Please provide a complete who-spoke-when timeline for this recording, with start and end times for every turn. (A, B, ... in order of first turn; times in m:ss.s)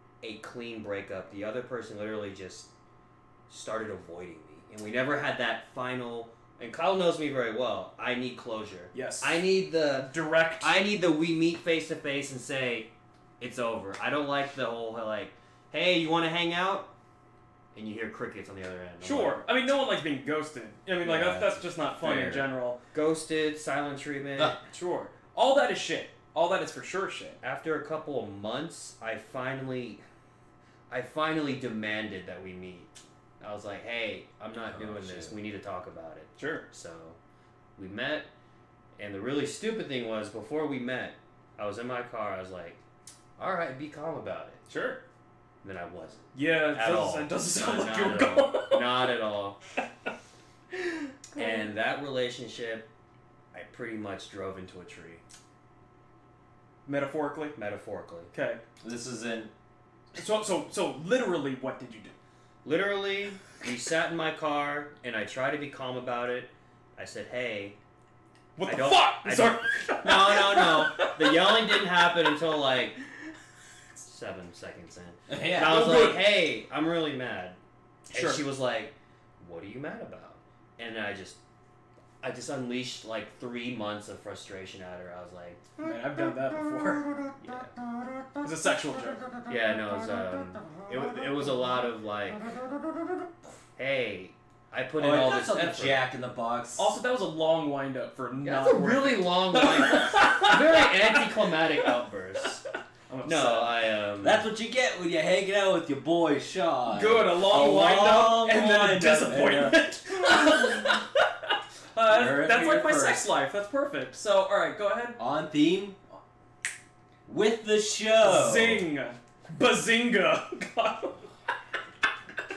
0:00.2-0:02.7 A
0:03.5-0:16.9 A
0:08.9-0:09.4 B
0:10.0-0:10.7 B
0:17.7-0:19.4 A
0:19.0-0:22.8 B
0:21.0-0:22.5 C
0:22.9-0:24.6 A
0:24.7-0:27.4 B
0:27.4-0:30.0 A
0:30.9-0:37.2 A
0:34.7-0:35.4 C
0:36.4-0:36.6 B
0:37.8-0:38.3 A
0:39.0-0:42.8 A
0:43.4-0:44.6 A
0:44.7-0:45.0 B
0:45.6-0:49.6 A
0:46.3-0:49.1 B
0:50.8-0:51.6 B
0:51.4-0:52.9 A
0:53.5-0:55.2 A
0:56.8-0:57.6 B
0:57.6-0:58.3 A
0:58.3-0:58.6 B
0:58.8-0:59.5 C
1:00.1-1:02.1 B
1:02.6-1:07.8 A
1:08.6-1:12.0 B
1:08.6-1:13.0 A
1:14.0-1:17.6 A
1:15.3-1:16.1 C
1:15.6-1:16.2 B
1:18.1-1:18.4 B
1:18.1-1:21.4 A
1:22.2-1:25.6 A
1:25.8-1:27.3 B
1:27.4-1:27.7 A
1:28.4-1:29.3 B
1:29.5-1:32.7 A
1:33.8-1:36.0 A
1:35.0-1:36.9 C
1:36.8-1:41.9 B
1:38.4-1:42.6 A
1:43.1-1:43.8 B
1:43.2-1:44.4 A
1:44.2-1:49.9 C
1:46.9-1:55.2 B
1:52.1-1:53.3 C
1:55.2-1:56.0 C
1:57.2-1:58.8 C
1:58.2-2:01.3 B